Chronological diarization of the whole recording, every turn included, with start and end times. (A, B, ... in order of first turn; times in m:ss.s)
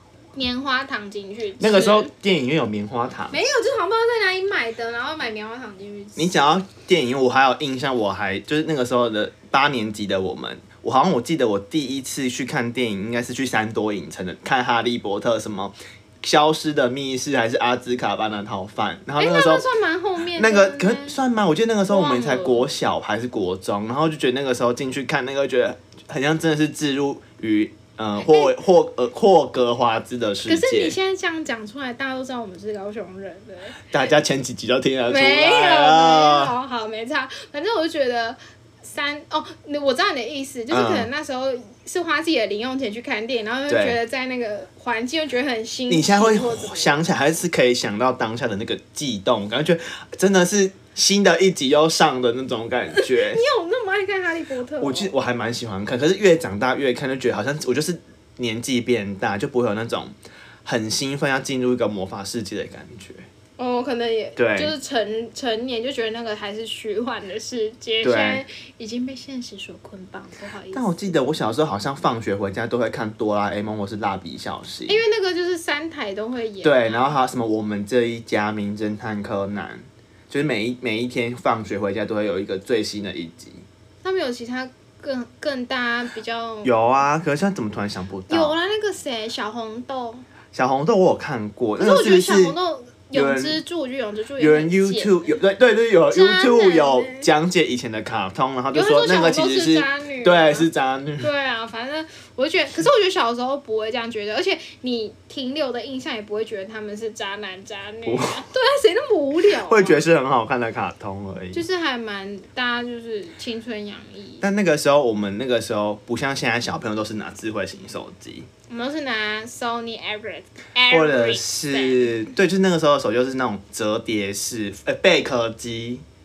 0:00.3-0:02.1 A
0:01.6-0:03.4 B
0:03.3-0:06.4 A
0:06.2-0:19.6 B
0:19.2-0:21.2 A
0:20.3-0:30.9 B
0:21.9-0:22.6 A
0:28.2-0:28.5 A
0:30.4-0:33.8 A
0:33.9-0:36.5 B
0:35.1-0:46.9 A
0:40.7-0:41.1 B
0:43.7-0:44.0 B
0:45.9-0:53.4 B
0:53.0-0:55.1 A
0:54.8-1:03.2 B
1:03.6-1:11.2 A
1:04.4-1:04.7 B
1:08.0-1:08.4 B
1:10.7-1:15.0 B
1:14.9-1:17.2 A
1:16.6-1:23.6 B
1:24.0-1:26.7 A
1:26.6-1:28.5 B
1:28.3-1:30.2 A
1:30.5-1:32.6 B
1:31.8-1:35.4 A
1:33.1-1:33.6 B
1:34.4-1:41.3 B
1:36.1-1:37.3 A
1:38.7-1:40.7 A
1:41.2-1:50.0 A
1:48.0-1:48.4 B
1:49.6-1:51.6 B
1:51.5-1:54.4 A
1:54.4-1:58.5 B
1:58.7-2:02.2 A
2:00.9-2:06.0 B